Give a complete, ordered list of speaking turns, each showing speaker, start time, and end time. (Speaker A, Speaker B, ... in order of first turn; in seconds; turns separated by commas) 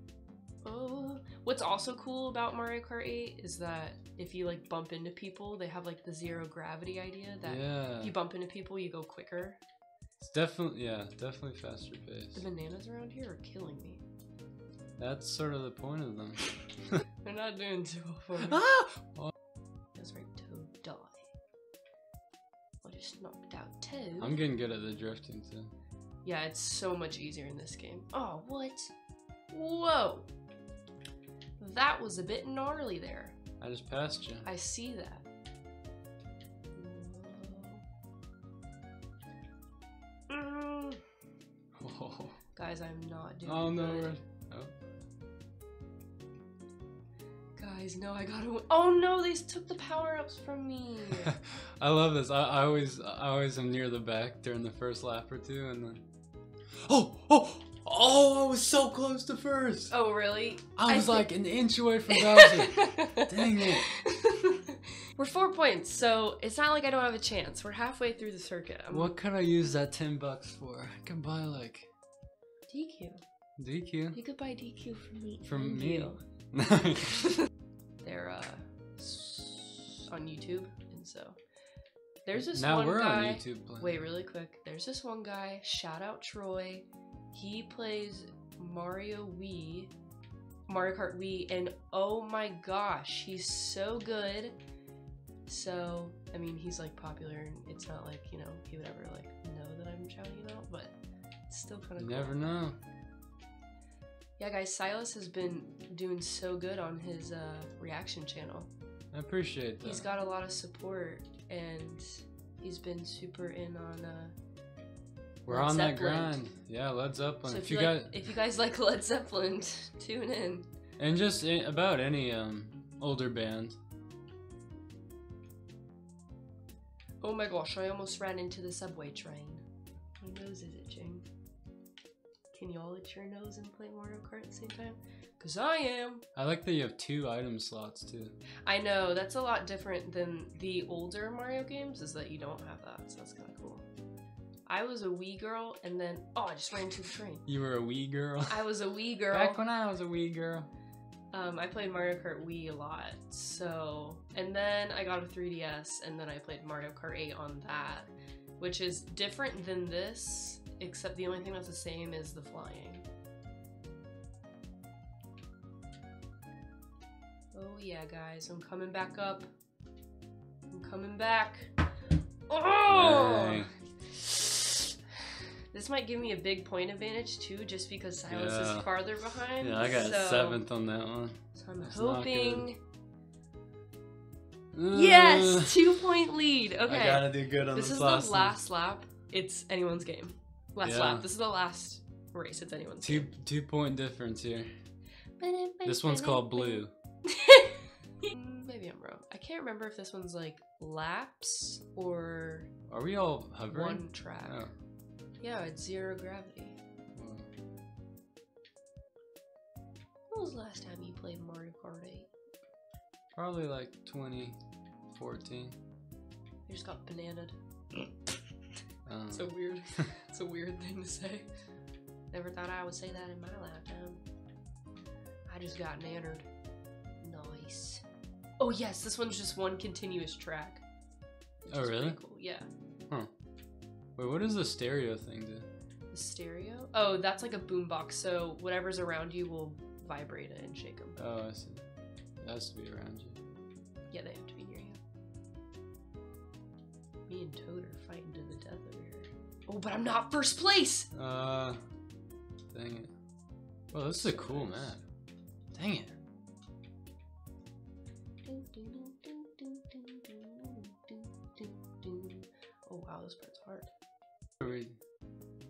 Speaker A: 0.6-9.6, Speaker B: 7.5-8.1, Speaker B: 10.2-12.4, Speaker A: 12.3-14.0, Speaker B: 15.0-17.0, Speaker A: 17.2-18.7, Speaker B: 18.4-19.3, Speaker A: 19.9-21.2, Speaker A: 22.8-24.4, Speaker B: 24.2-25.7, Speaker A: 26.2-28.9, Speaker A: 29.5-30.3, Speaker A: 31.6-33.4, Speaker B: 33.6-34.5, Speaker A: 34.5-35.2, Speaker A: 36.8-37.8, Speaker A: 40.3-41.0, Speaker B: 41.8-42.4, Speaker A: 42.5-44.2, Speaker B: 43.5-44.7, Speaker A: 47.6-51.4, Speaker B: 51.8-56.0, Speaker B: 56.8-59.9, Speaker A: 59.9-61.3, Speaker B: 60.8-63.9, Speaker A: 62.1-69.1, Speaker B: 68.9-71.9, Speaker A: 72.7-73.2, Speaker B: 73.6-74.2, Speaker A: 74.1-76.2, Speaker B: 75.5-77.3, Speaker A: 78.0-81.4, Speaker A: 82.2-89.9, Speaker B: 82.4-84.0, Speaker A: 90.7-94.6, Speaker A: 95.5-100.9, Speaker A: 101.5-102.4, Speaker B: 102.0-102.8, Speaker A: 104.4-108.7, Speaker B: 109.1-110.0, Speaker A: 109.8-114.3, Speaker B: 115.5-118.1, Speaker A: 115.5-116.4, Speaker A: 117.5-120.7, Speaker B: 121.0-123.8, Speaker A: 127.2-129.6, Speaker A: 130.2-131.2, Speaker A: 132.5-136.2, Speaker B: 136.4-138.3, Speaker A: 138.7-143.8, Speaker A: 144.7-147.4, Speaker B: 147.5-148.7, Speaker A: 148.5-149.6, Speaker B: 149.3-150.7, Speaker A: 151.3-163.1, Speaker A: 167.5-169.5, Speaker A: 170.7-171.7, Speaker A: 172.5-174.8, Speaker B: 172.9-173.7, Speaker A: 175.7-180.6, Speaker B: 178.3-178.9, Speaker B: 179.6-182.7, Speaker A: 181.6-182.8, Speaker B: 184.7-185.8, Speaker A: 184.9-193.3, Speaker B: 186.9-188.6, Speaker B: 190.8-191.2, Speaker B: 193.0-194.7, Speaker A: 195.4-202.7, Speaker B: 195.8-196.9, Speaker B: 202.9-204.7, Speaker A: 203.7-204.6, Speaker A: 205.4-206.8, Speaker B: 207.2-207.5, Speaker A: 210.3-212.3, Speaker B: 213.4-214.6, Speaker B: 215.1-215.8, Speaker A: 216.7-218.1, Speaker B: 219.1-219.5, Speaker A: 219.3-221.5, Speaker A: 222.3-224.2, Speaker A: 225.5-226.4, Speaker A: 227.2-228.0, Speaker A: 228.6-230.8, Speaker A: 231.7-232.7, Speaker B: 231.7-232.2, Speaker B: 234.2-235.7, Speaker A: 236.1-241.2, Speaker B: 241.2-241.8, Speaker B: 242.4-243.4, Speaker A: 244.1-245.0, Speaker A: 247.3-251.1, Speaker B: 251.1-251.8, Speaker B: 252.7-253.1, Speaker B: 253.9-255.0, Speaker A: 254.1-254.9, Speaker B: 255.7-256.1, Speaker A: 258.4-263.9, Speaker B: 264.6-265.0